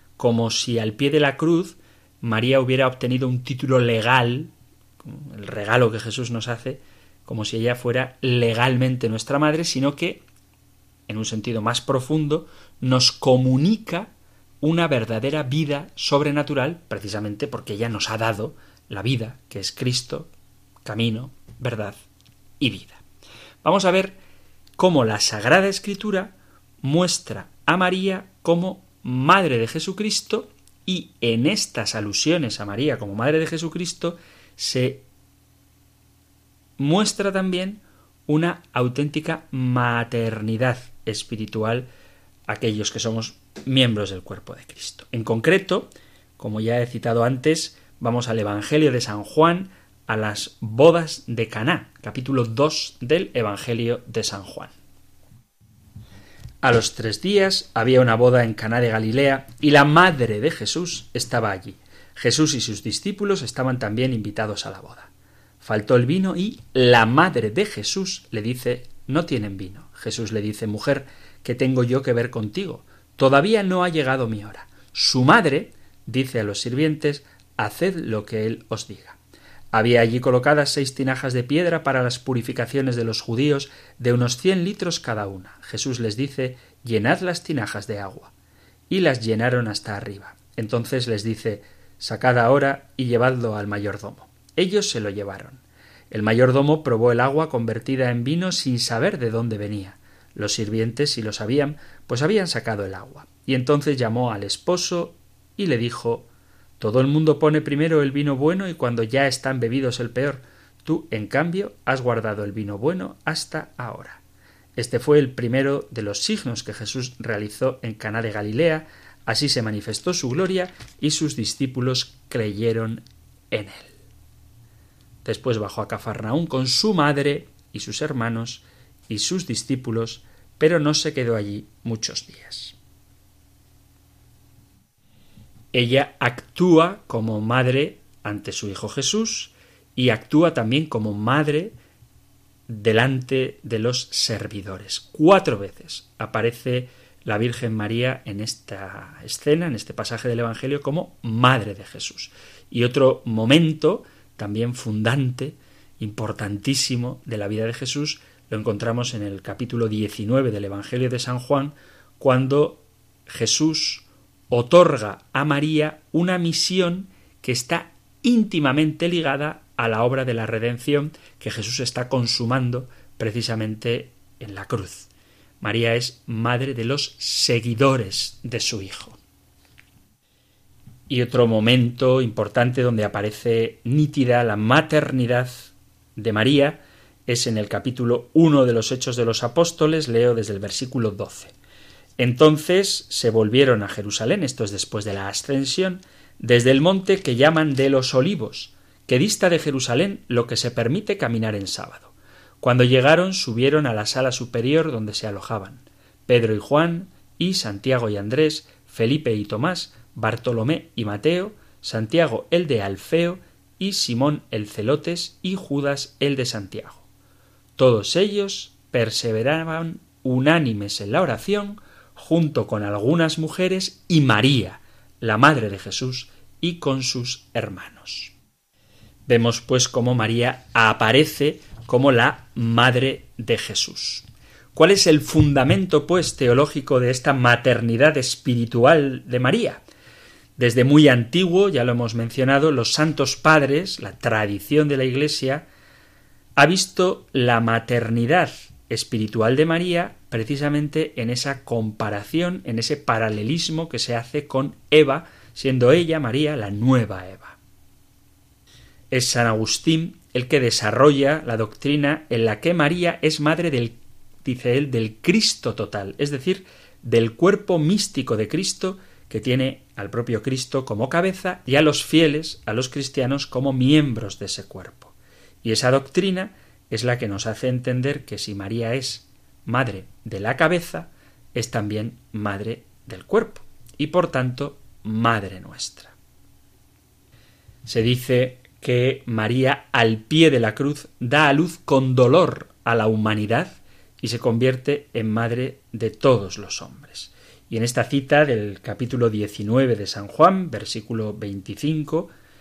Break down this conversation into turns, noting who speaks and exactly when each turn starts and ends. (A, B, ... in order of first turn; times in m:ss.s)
0:00.2-0:10.2 A
0:11.1-0:20.3 A
0:20.8-0:22.0 A
0:22.6-0:23.0 A
0:23.6-0:24.2 A
0:24.8-0:35.0 A
0:36.8-0:41.9 A
0:42.5-0:54.7 A
0:56.6-1:05.1 A
1:05.6-1:19.2 A
1:19.7-1:28.3 A
1:28.9-1:54.2 A
1:54.8-2:03.9 A
2:05.2-2:12.8 A
2:15.7-2:21.7 A
2:22.7-2:55.1 A
2:55.6-2:59.2 A
3:01.1-3:11.5 A
3:12.2-3:37.0 A
3:37.8-3:48.3 A
3:49.3-3:59.8 A
4:00.6-4:05.6 A
4:06.6-4:17.6 A
4:19.1-4:46.1 A
4:47.8-5:02.3 A